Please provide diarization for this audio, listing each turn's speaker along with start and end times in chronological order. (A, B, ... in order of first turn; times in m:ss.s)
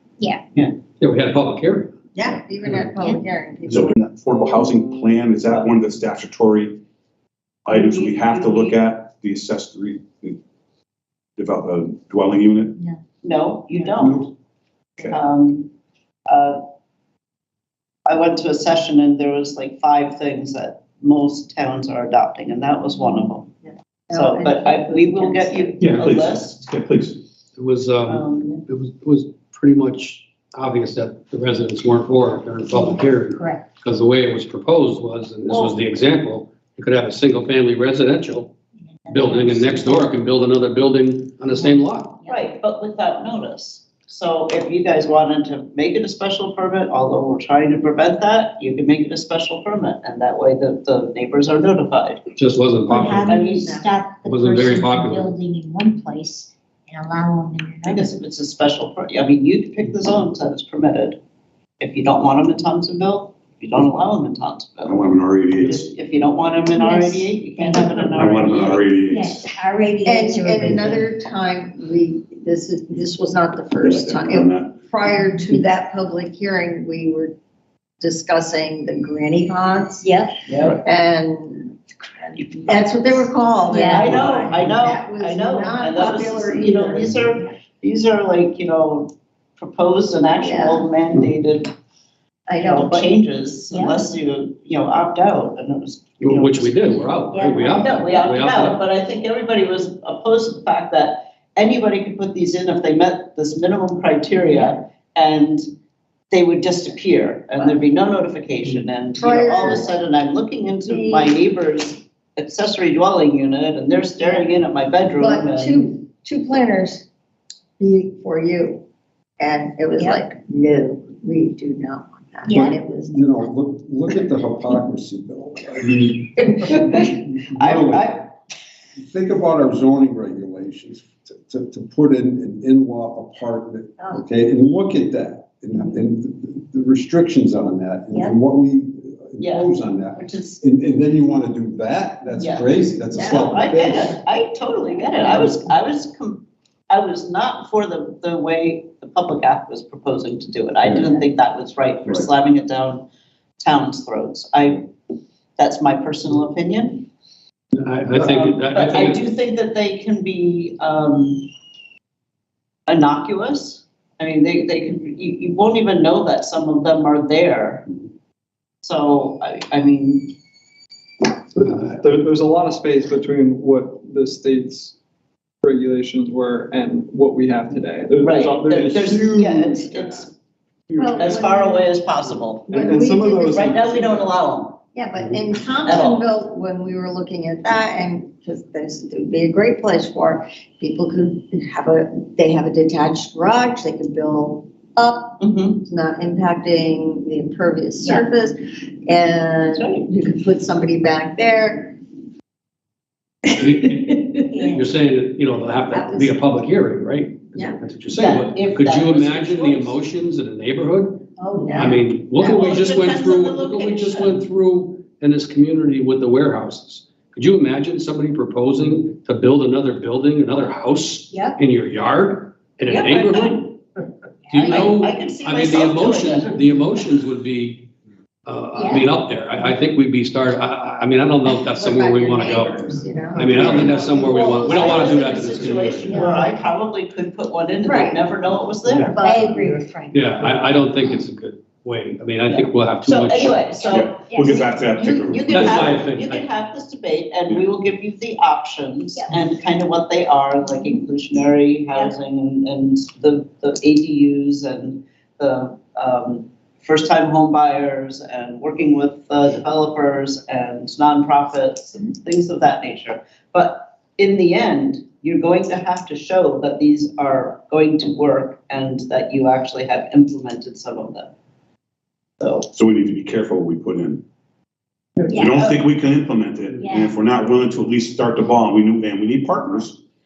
0:01.0-0:01.9 A
0:02.1-0:04.0 B
0:03.7-0:06.8 C
0:07.6-0:10.4 C
0:07.7-0:08.8 D
0:11.4-0:12.8 C
0:13.2-0:14.2 D
0:14.0-0:14.3 E
0:15.1-0:15.7 D
0:16.3-0:16.6 D
0:18.0-0:23.5 D
0:24.1-0:25.7 B
0:24.1-0:26.6 D
0:25.8-0:27.2 C
0:27.6-0:38.5 A
0:28.0-0:28.6 D
0:32.7-0:33.8 F
0:35.5-0:35.8 D
0:39.0-0:40.1 F
0:39.1-0:42.1 A
0:41.5-0:42.4 F
0:42.3-0:52.2 D
0:52.4-0:53.2 A
0:52.9-0:58.1 F
0:53.2-0:53.8 D
0:54.2-0:55.3 A
0:57.8-1:01.2 D
1:01.8-1:08.9 D
1:04.8-1:05.9 C
1:06.7-1:10.8 F
1:08.1-1:09.5 C
1:10.0-1:17.3 B
1:13.8-1:14.8 C
1:15.2-1:15.6 F
1:18.0-1:20.1 B
1:20.0-1:20.4 F
1:20.5-1:20.8 D
1:20.8-1:27.4 B
1:22.4-1:23.2 D
1:23.7-1:24.2 F
1:23.9-1:31.7 D
1:30.4-1:30.9 B
1:32.5-1:33.2 B
1:32.6-1:37.0 D
1:33.7-1:34.1 F
1:36.2-1:38.8 A
1:37.1-1:38.1 F
1:37.8-1:45.6 D
1:46.3-1:55.9 D
1:49.1-1:50.0 B
1:50.8-1:51.4 B
1:55.2-1:57.0 B
1:57.8-1:58.8 B
1:59.4-2:03.5 B
2:00.0-2:00.2 F
2:02.4-2:02.8 F
2:02.5-2:08.2 E
2:06.4-2:06.8 B
2:06.7-2:08.3 D
2:09.0-2:24.2 E
2:19.4-2:20.6 D
2:22.3-2:33.0 D
2:23.1-2:24.1 B
2:33.6-2:34.8 D
2:35.6-2:37.1 D
2:37.8-2:39.2 A
2:38.1-2:41.5 D
2:42.9-2:47.9 D
2:48.8-2:50.3 D
2:51.5-2:55.0 G
2:55.6-3:00.2 G
2:58.2-3:00.3 D
3:01.0-3:01.9 B
3:01.0-3:01.3 G
3:01.2-3:04.8 D
3:02.7-3:03.7 B
3:02.7-3:04.3 G
3:04.9-3:22.0 B
3:05.8-3:06.2 D
3:15.4-3:15.8 D
3:18.0-3:18.3 F
3:19.7-3:20.1 D
3:23.6-3:43.8 A
3:23.8-3:24.2 B
3:24.5-3:24.9 F
3:25.9-3:26.4 B
3:27.5-3:27.8 B
3:28.1-3:30.0 D
3:31.4-3:32.0 F
3:31.5-3:32.7 B
3:32.4-3:34.4 D
3:41.3-3:41.6 F
3:42.9-3:43.7 D
3:44.5-3:44.9 F
3:44.5-3:47.9 A
3:44.6-3:46.6 D
3:48.4-3:56.2 A
3:48.7-3:49.1 F
3:51.6-3:55.4 B
3:53.7-3:54.5 F
3:54.4-3:59.2 D
3:56.0-3:56.5 F
3:57.8-3:58.2 B
3:58.8-3:59.1 A
3:59.1-3:59.8 B
3:59.2-4:01.2 F
4:00.1-4:03.8 A
4:02.5-4:31.3 D
4:03.9-4:05.8 C
4:04.3-4:04.7 F
4:05.5-4:06.4 A
4:09.1-4:09.4 F
4:10.7-4:11.0 F
4:32.4-4:32.7 D
4:32.7-4:34.2 C
4:35.3-4:35.7 F
4:35.3-4:40.0 C
4:36.8-4:37.2 F